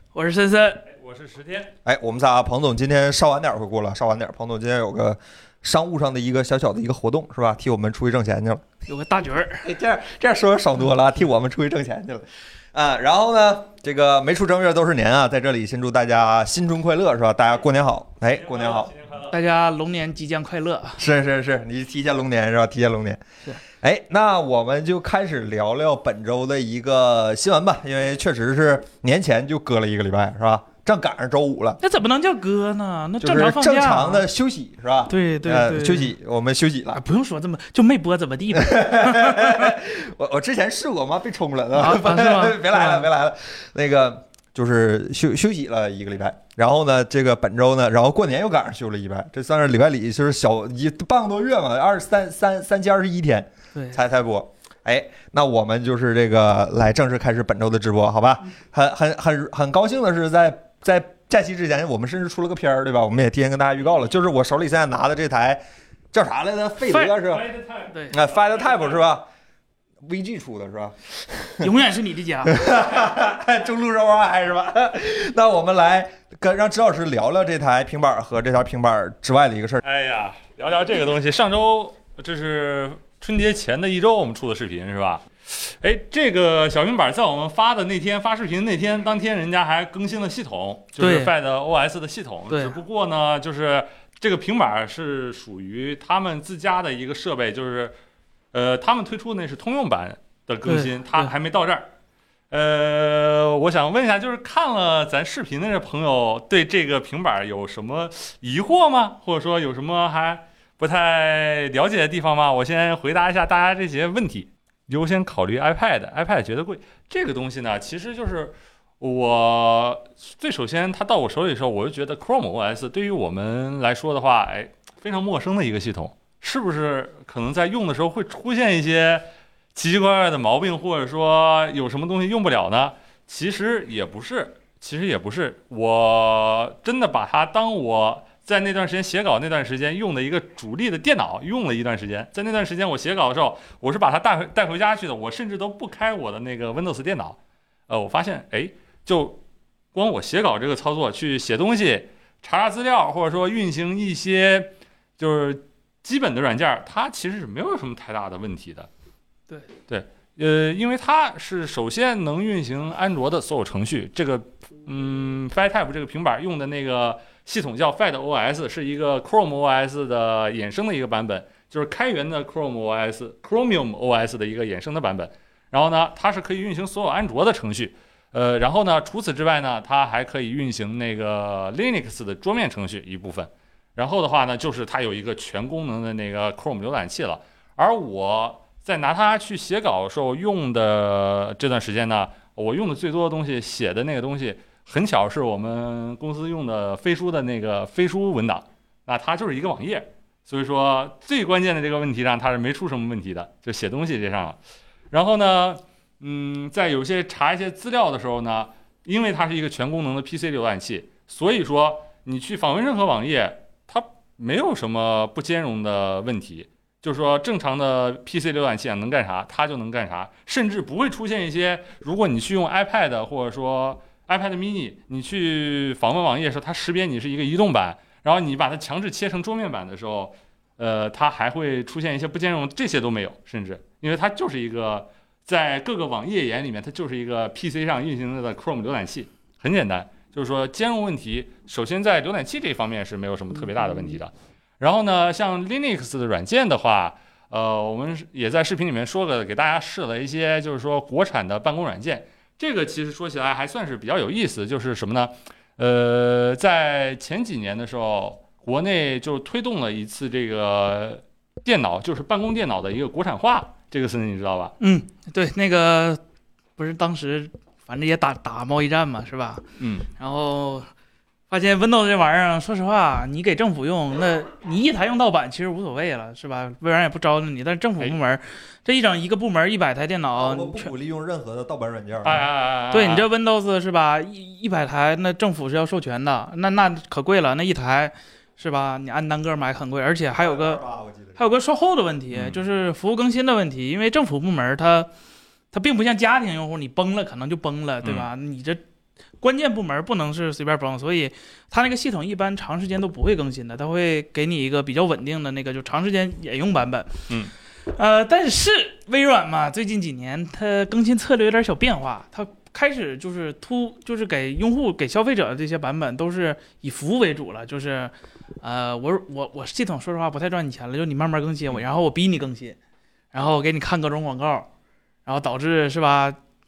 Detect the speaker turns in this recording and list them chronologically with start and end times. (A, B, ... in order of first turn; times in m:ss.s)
0:00.1-0:00.8 A
0:00.8-0:01.7 B
0:01.8-0:08.6 C
0:08.8-0:09.6 A
0:09.6-0:18.9 C
0:18.2-0:19.4 B
0:19.3-0:21.0 A
0:21.0-0:31.8 C
0:31.8-0:34.2 A
0:33.2-0:37.0 C
0:35.1-0:36.1 A
0:36.9-0:39.8 A
0:38.5-1:07.4 C
0:41.7-0:43.1 A
1:06.9-1:07.1 A
1:07.1-1:09.1 B
1:08.1-1:09.2 C
1:10.0-1:11.7 C
1:11.6-1:12.6 A
1:12.4-1:19.8 C
1:19.8-1:37.9 B
1:31.0-1:31.3 A
1:32.5-1:32.8 A
1:38.5-1:41.9 B
1:40.6-1:41.3 A
1:42.5-2:27.4 B
2:27.9-2:29.4 B
2:29.9-2:38.9 B
2:39.9-3:24.6 B
3:25.1-4:24.7 B
4:24.8-4:26.2 A
4:26.8-4:29.6 A
4:29.8-4:30.1 B
4:30.2-4:30.9 A
4:31.5-4:40.9 A
4:40.4-4:42.4 C
4:42.2-4:43.2 B
4:42.9-4:50.8 A
4:50.3-4:51.4 C
4:51.4-4:55.1 A
4:52.3-4:52.6 B
4:55.7-4:58.8 A
4:59.4-5:07.3 A
5:07.8-5:22.8 A
5:23.3-5:24.7 A
5:25.2-5:26.4 A